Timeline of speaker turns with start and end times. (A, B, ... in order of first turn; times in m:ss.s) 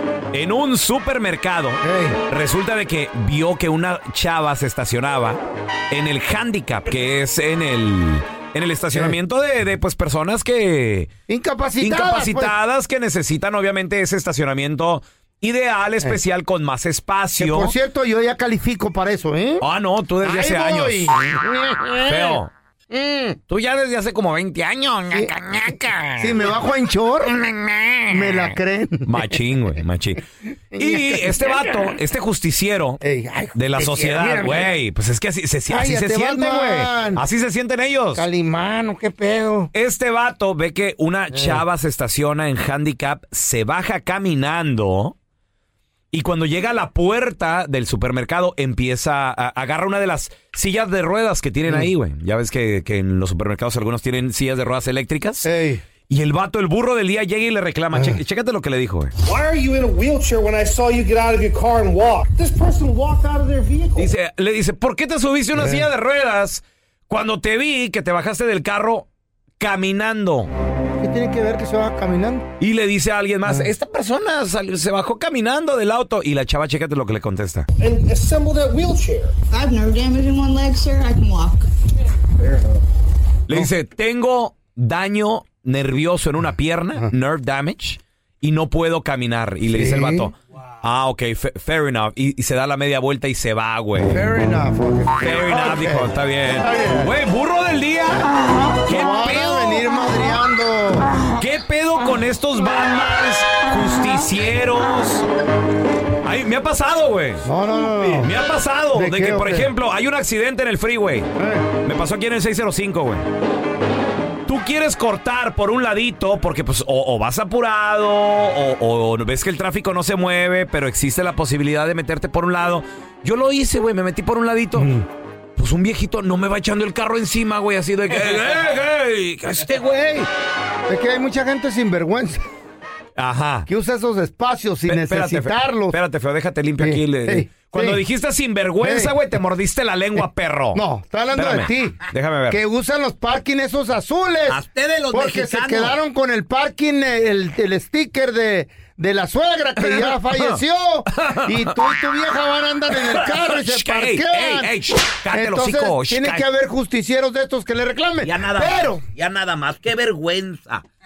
0:00.3-0:11.1 A
0:01.8-0:02.2 B
0:11.3-0:12.6 B
0:11.8-0:17.7 A
0:17.3-0:19.6 B
0:19.6-0:21.1 A
0:20.2-0:22.4 B
0:22.0-0:22.5 A
0:22.9-0:23.4 B
0:23.5-0:26.3 A
0:26.2-0:27.3 B
0:27.4-0:28.1 A
0:28.1-0:29.3 B
0:29.1-0:30.2 A
0:30.7-0:31.8 B
0:30.8-0:33.0 A
0:33.0-0:34.7 B
0:33.5-0:38.2 A
0:35.7-0:37.2 B
0:38.1-0:39.7 B
0:39.7-0:45.1 A
0:41.3-0:41.6 B
0:46.1-0:55.5 A
0:55.4-0:55.8 B
0:56.1-0:59.1 A
0:57.9-0:58.2 B
0:59.2-1:04.1 C
1:04.0-1:09.0 A
1:05.5-1:05.9 B
1:09.6-1:10.5 A
1:11.0-1:12.4 B
1:12.6-1:17.6 A
1:13.4-1:13.7 B
1:17.8-1:19.4 C
1:19.5-1:21.7 D
1:23.5-1:34.2 A
1:29.7-1:30.3 B
1:34.0-1:37.1 B
1:35.2-1:39.8 A
1:38.8-1:41.1 B
1:41.4-1:45.2 A
1:46.2-1:47.5 A
1:47.4-1:48.3 B
1:48.2-1:51.3 A
1:48.9-1:49.7 B
1:51.4-1:51.7 B
1:51.8-1:53.2 A
1:54.4-2:04.9 A
2:04.7-2:05.0 B
2:05.6-2:10.3 A
2:10.9-2:12.4 B
2:13.2-2:13.7 A
2:13.7-2:16.0 B
2:14.9-2:20.8 A
2:16.8-2:18.0 B
2:18.8-2:19.1 B
2:20.7-2:24.6 B
2:21.3-2:22.6 A
2:24.5-2:25.9 E
2:25.1-2:34.7 B
2:29.8-2:30.6 A
2:31.1-2:31.5 A
2:33.2-2:36.4 A
2:35.3-2:39.0 B
2:38.2-2:40.8 E